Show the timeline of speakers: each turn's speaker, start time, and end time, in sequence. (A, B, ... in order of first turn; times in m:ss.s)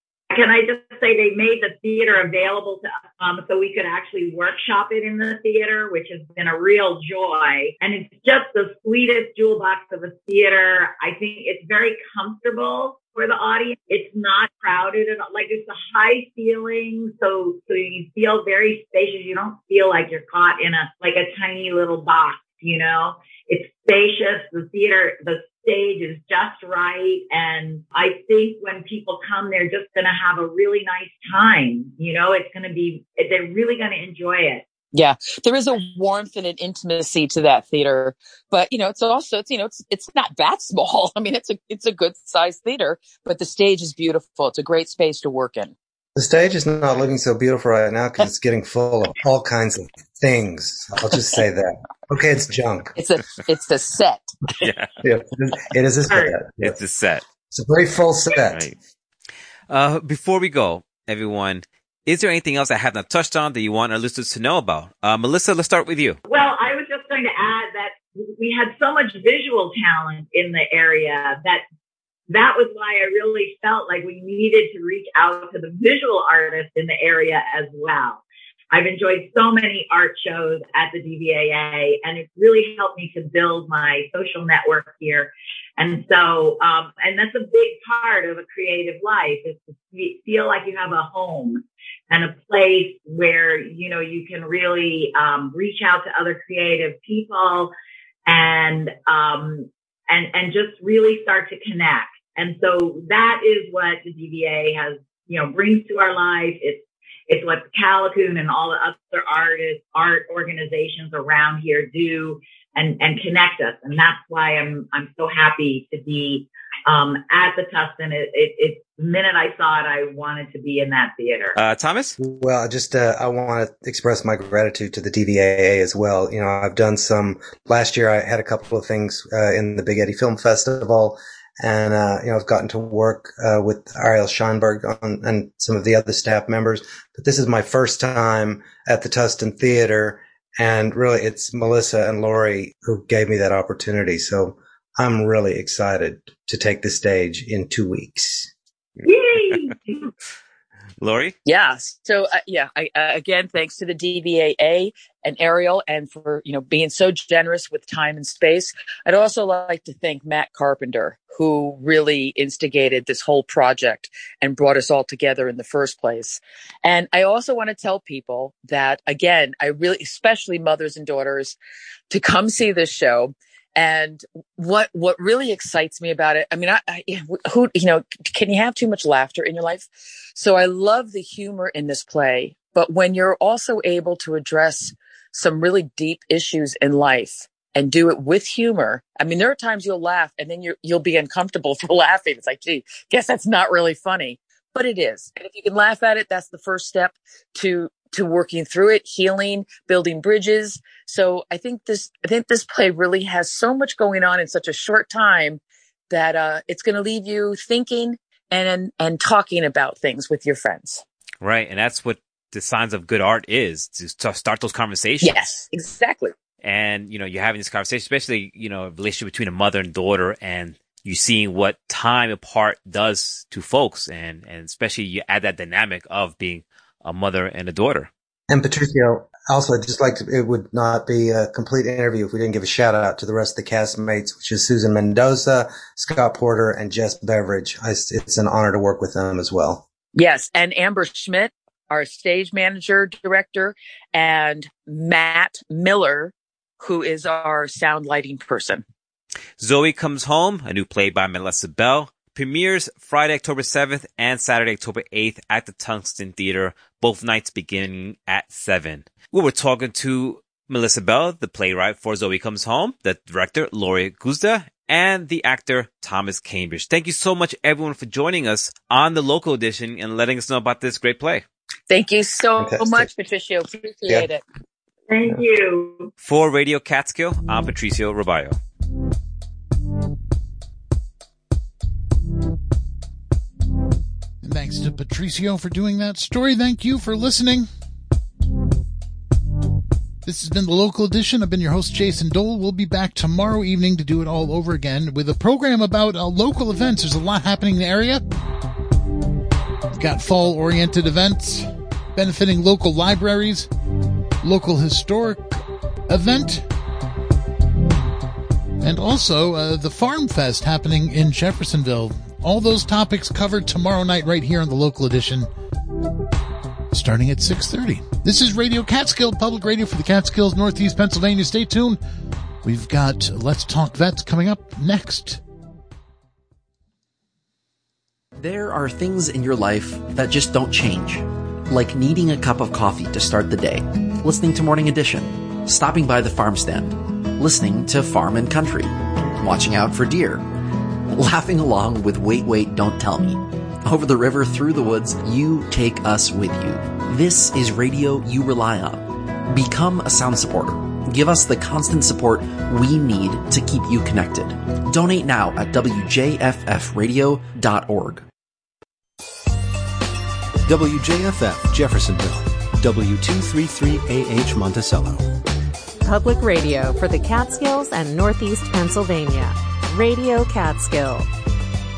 0:00.3-0:34.6 A
0:34.9-0:45.7 B
0:46.2-0:52.9 C
0:53.0-0:54.7 B
0:54.6-0:54.9 D
0:55.0-0:56.8 C
0:56.6-0:57.2 D
0:57.5-0:58.6 C
0:59.7-1:06.2 D
1:06.3-1:11.6 A
1:12.3-1:37.7 A
1:38.3-2:01.6 A
2:01.6-2:02.2 D
2:02.2-2:28.5 C
2:29.0-2:30.1 A
2:31.0-2:31.4 D
2:31.4-2:51.6 B
2:52.1-3:31.0 B
3:31.4-3:35.4 D
3:35.2-3:36.3 B
3:36.6-3:48.1 D
3:48.5-3:59.8 C
4:00.2-4:08.8 B
4:09.6-4:31.4 D
4:31.9-4:34.4 B
4:32.6-4:33.1 C
4:35.1-4:36.1 A
4:36.2-4:38.6 D
4:44.4-4:47.7 E
4:50.2-4:58.2 E
4:59.9-5:03.7 E
5:04.4-5:06.7 E
5:08.8-5:15.5 E
5:16.9-5:22.0 E
5:22.6-5:25.4 E
5:28.4-5:40.5 F
5:41.1-5:58.2 F
6:00.7-6:05.3 G
6:06.0-6:11.3 H